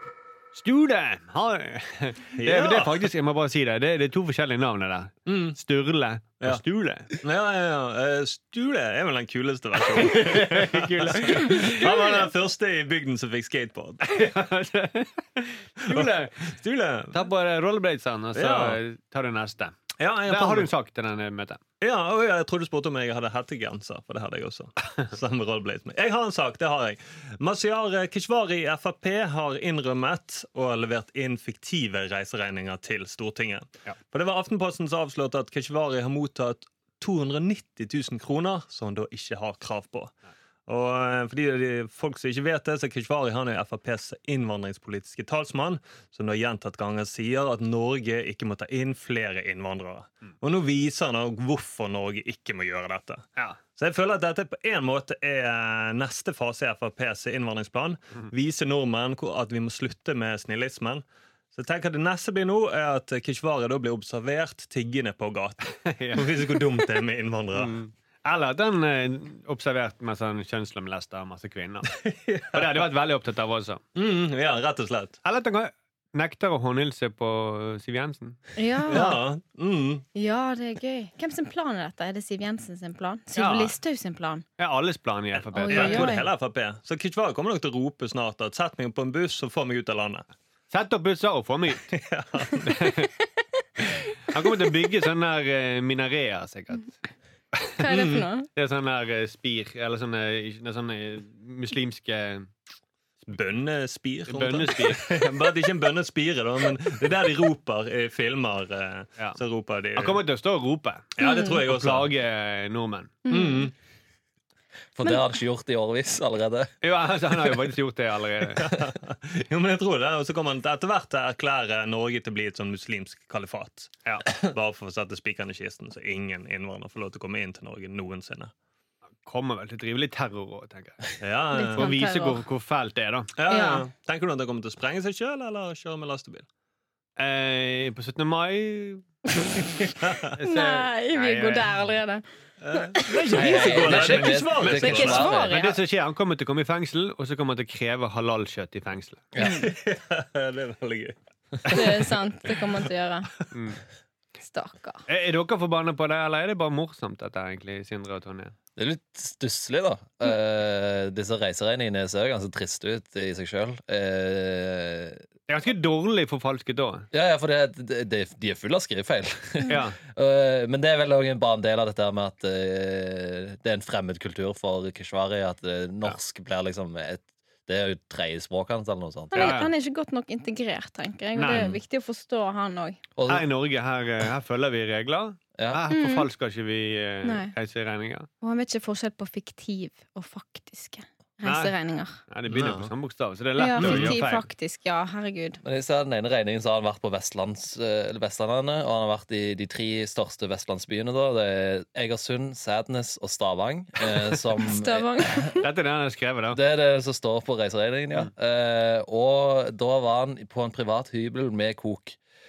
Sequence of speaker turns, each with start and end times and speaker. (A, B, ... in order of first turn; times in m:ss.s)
0:00.5-0:07.1 A
0:02.4-0:03.1 B
0:05.3-0:05.6 B
0:07.1-0:14.1 B
0:10.0-0:11.9 A
0:11.8-0:12.1 C
0:14.0-0:16.5 A
0:15.8-0:17.2 B
0:17.1-0:19.7 A
0:18.3-0:18.8 B
0:20.0-0:20.7 B
0:20.3-0:21.6 A
0:21.8-0:40.1 B
0:40.7-1:07.8 B
1:05.8-1:06.4 A
1:07.5-1:11.9 A
1:11.9-1:12.8 B
1:12.5-1:13.8 A
1:13.9-1:15.2 B
1:15.2-1:18.4 A
1:18.6-1:19.2 C
1:18.9-1:20.0 B
1:20.1-1:24.4 C
1:23.3-1:23.8 A
1:24.6-1:26.1 A
1:25.5-1:26.3 C
1:25.7-1:30.2 B
1:30.7-1:31.9 A
1:31.9-1:32.7 B
1:32.6-1:33.1 A
1:33.8-1:37.0 A
1:37.8-1:38.5 C
1:37.9-1:38.3 B
1:38.6-1:42.5 A
1:43.3-1:50.2 B
1:44.3-1:45.1 A
1:50.0-1:53.2 A
1:51.2-1:52.1 B
1:51.2-1:51.6 C
1:53.2-1:53.7 C
1:53.3-1:53.7 B
1:54.9-1:56.7 D
1:56.8-1:58.7 A
1:58.6-2:08.5 B
2:09.2-2:11.0 A
2:11.2-2:11.9 B
2:11.5-2:12.4 C
2:11.8-2:13.3 A
2:13.4-2:16.4 B
2:13.5-2:13.8 C
2:17.2-2:19.0 A
2:20.0-2:20.3 B
2:20.3-2:21.7 A
2:20.4-2:22.2 C
2:22.6-2:25.4 B
2:22.8-2:25.8 C
2:23.3-2:25.6 D
2:25.3-2:29.3 A
2:29.4-2:29.6 D
2:29.4-2:32.1 B
2:31.7-2:33.3 C
2:33.5-2:33.8 A
2:34.4-2:35.0 C
2:35.1-2:38.5 A
2:38.8-2:45.2 D
2:45.5-2:47.1 A
2:47.1-2:59.6 D
2:49.7-2:50.0 A
2:59.3-3:03.0 C
2:59.3-2:59.7 A
3:01.3-3:01.7 A
3:01.4-3:01.8 D
3:03.2-3:03.4 D
3:03.3-3:08.3 A
3:05.6-3:05.8 D
3:05.9-3:06.3 C
3:07.2-3:07.5 C
3:08.4-3:12.2 C
3:11.4-3:11.7 A
3:12.3-3:14.4 A
3:12.5-3:12.9 B
3:13.6-3:15.6 C
3:13.8-3:14.2 B
3:15.6-3:25.6 D
3:24.6-3:25.7 C
3:25.6-3:26.6 A
3:26.5-3:32.2 D